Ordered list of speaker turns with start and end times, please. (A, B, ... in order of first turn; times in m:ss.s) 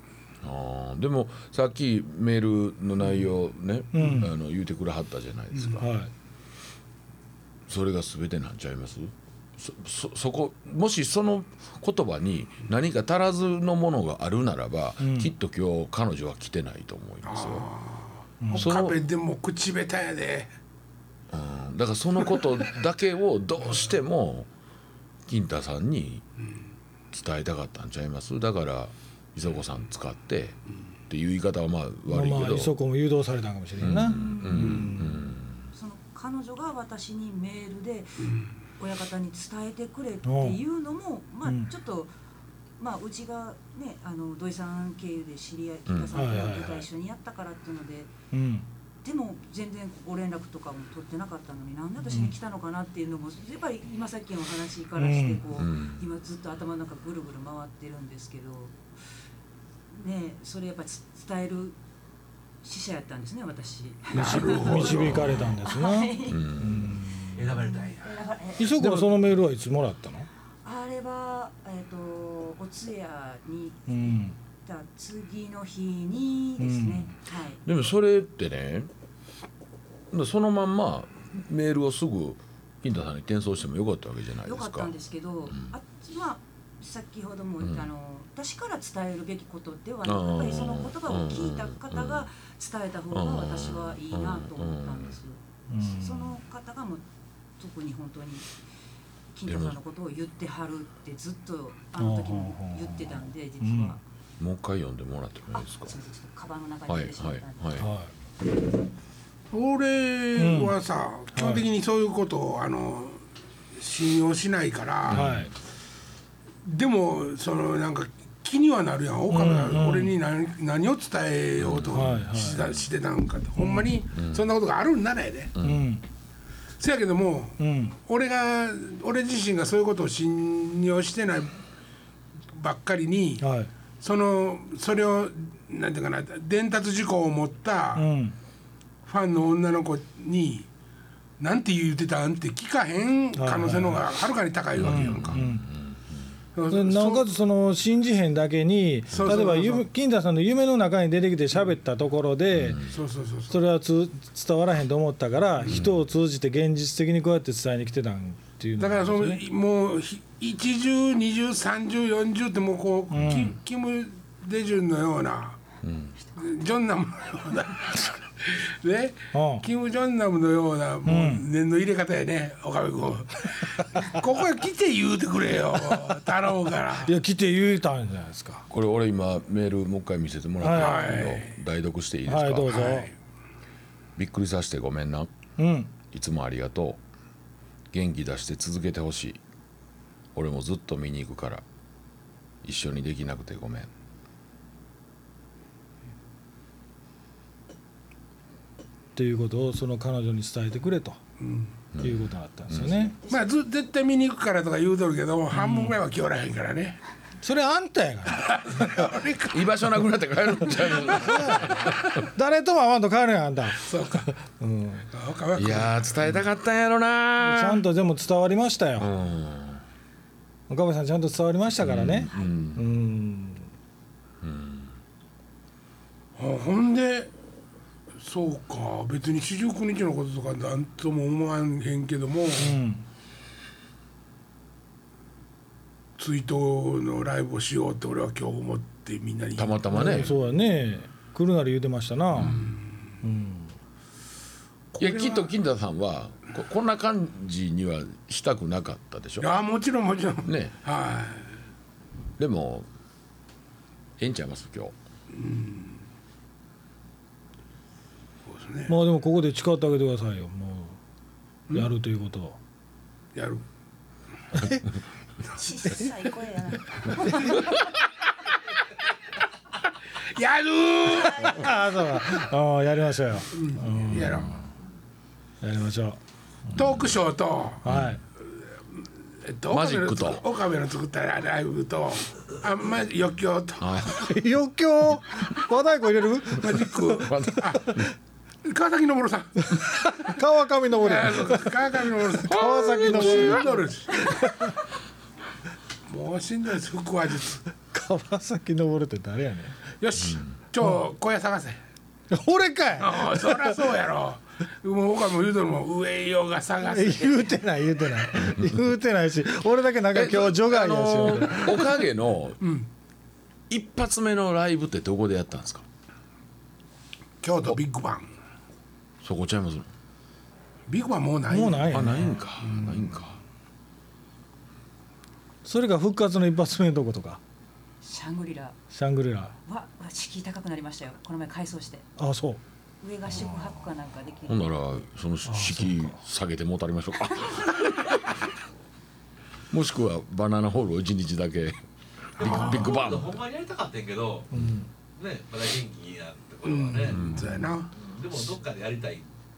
0:00.4-0:05.9 A
0:03.9-0:04.3 B
0:05.5-0:05.8 C
0:05.8-0:06.1 B
0:07.7-0:17.7 A
0:15.0-0:15.3 B
0:17.2-0:20.5 C
0:18.4-0:18.7 B
0:18.5-0:19.0 A
0:21.3-0:24.5 A
0:25.2-0:26.2 A
0:27.1-0:32.7 A
0:32.1-0:35.4 B
0:33.8-0:35.7 A
0:34.1-0:34.7 D
0:34.5-0:34.9 C
0:35.7-0:42.1 D
0:38.2-0:38.5 C
0:40.2-0:40.6 B
0:41.4-0:41.7 B
0:42.8-0:48.1 D
0:45.9-0:46.1 A
0:46.1-0:46.8 B
0:48.3-0:48.6 B
0:49.0-0:58.8 D
0:52.0-0:52.3 B
0:55.0-0:55.4 B
0:55.6-0:56.0 A
0:59.9-1:01.8 D
1:02.6-1:08.9 D
1:04.1-1:05.3 C
1:04.2-1:07.4 B
1:06.3-1:07.0 A
1:07.3-1:08.2 E
1:08.6-1:10.3 B
1:10.6-1:17.6 D
1:13.9-1:14.3 B
1:16.6-1:17.1 B
1:17.6-1:18.9 A
1:20.1-1:24.9 A
1:24.4-1:37.0 D
1:27.6-1:27.9 A
1:30.0-1:32.3 A
1:33.1-1:35.2 A
1:35.7-1:36.4 B
1:37.6-1:38.5 D
1:39.3-1:44.0 D
1:39.4-1:39.8 A
1:42.0-1:44.0 B
1:44.4-1:46.0 A
1:45.5-1:47.8 D
1:46.9-1:47.9 A
1:47.8-1:48.1 B
1:49.5-1:53.2 C
1:50.4-1:50.8 B
1:51.3-1:51.6 B
1:53.8-1:55.3 C
1:55.1-1:55.5 A
1:55.1-1:55.5 B
1:56.6-2:05.6 C
1:59.3-2:00.1 B
2:01.6-2:02.8 A
2:01.9-2:02.6 B
2:03.6-2:03.9 B
2:05.6-2:05.8 A
2:05.6-2:06.0 B
2:06.8-2:11.6 C
2:07.6-2:08.0 B
2:12.5-2:13.4 C
2:13.4-2:13.7 B
2:14.0-2:18.1 C
2:17.9-2:18.3 B
2:19.0-2:20.7 C
2:21.4-2:25.4 C
2:23.3-2:24.0 B
2:24.8-2:26.2 A
2:24.8-2:25.7 B
2:26.5-2:27.3 C
2:26.7-2:32.9 B
2:29.1-2:29.8 C
2:32.5-2:32.9 A
2:32.9-2:33.6 C
2:33.5-2:39.4 B
2:35.6-2:35.9 A
2:38.8-2:45.6 C
2:43.1-2:43.5 B
2:45.8-2:46.1 A
2:46.4-2:57.1 C
2:49.3-2:49.6 B
2:51.0-2:51.4 B
2:57.0-2:58.6 B
2:58.7-3:02.9 A
3:00.6-3:01.1 B
3:00.7-3:01.6 C
3:02.3-3:03.1 B
3:02.7-3:03.1 C
3:04.2-3:05.3 A
3:05.6-3:05.9 B
3:06.1-3:07.0 A
3:07.9-3:09.4 A
3:10.3-3:11.6 A
3:12.6-3:13.9 A
3:19.1-3:21.2 B
3:21.4-3:21.8 C
3:21.9-3:23.1 A
3:22.0-3:23.2 B
3:23.3-3:27.0 C
3:25.5-3:26.0 B
3:27.4-3:29.0 B
3:28.3-3:29.8 C
3:29.5-3:32.1 A
3:30.8-3:35.1 B
3:33.8-3:34.3 C
3:35.1-3:36.3 C
3:35.5-3:37.8 A
3:37.4-3:39.1 B
3:39.0-3:39.8 A
3:40.7-3:43.6 B
3:41.8-3:42.8 A
3:44.4-3:44.9 A
3:46.4-3:47.3 C
3:48.2-3:52.8 C
3:52.6-3:53.0 B
3:56.2-4:00.3 C
3:59.6-4:00.3 A
3:59.9-4:02.7 B
4:02.3-4:02.7 A
4:03.2-4:03.7 B
4:04.9-4:05.5 C
4:05.0-4:09.5 A
4:09.4-4:11.5 C
4:10.4-4:10.7 A
4:12.4-4:12.9 A
4:14.2-4:14.9 A
4:15.3-4:16.0 C
4:18.4-4:19.0 C
4:18.9-4:21.0 B
4:21.7-4:22.6 B
4:23.3-4:23.6 C
4:24.5-4:24.8 B
4:25.5-4:27.8 D
4:30.3-4:31.7 C
4:31.4-4:34.6 B
4:33.5-4:34.6 C
4:35.6-4:36.2 B
4:36.7-4:37.8 C
4:37.8-4:38.2 B
4:37.8-4:38.2 A
4:39.4-4:44.1 C
4:39.7-4:40.4 A
4:43.8-4:44.3 A
4:44.1-4:47.2 B
4:46.6-4:48.0 C
4:47.2-4:48.0 A
4:48.6-4:50.3 C
4:49.7-4:54.8 B
4:50.9-4:54.4 C
4:52.4-4:53.7 A
4:56.1-4:57.6 C
4:57.9-4:59.8 B
5:00.0-5:01.8 C
5:02.3-5:03.8 B
5:03.0-5:07.6 C
5:06.8-5:11.9 B
5:10.1-5:12.6 A
5:12.6-5:12.9 C
5:13.7-5:15.8 A
5:17.4-5:18.3 C
5:19.2-5:19.9 A
5:20.9-5:23.0 C
5:21.5-5:22.3 B
5:21.9-5:23.4 A
5:25.6-5:27.4 B
5:28.0-5:28.8 D
5:28.9-5:29.5 B
5:29.6-5:32.1 D
5:32.2-5:32.6 B
5:33.0-5:34.7 D
5:34.5-5:38.2 A
5:35.4-5:36.2 B
5:39.7-5:41.8 A
5:42.3-5:43.4 A
5:42.4-5:44.5 E
5:44.5-5:44.9 B
5:45.1-5:49.3 E
5:46.6-5:47.9 C
5:47.1-5:47.7 A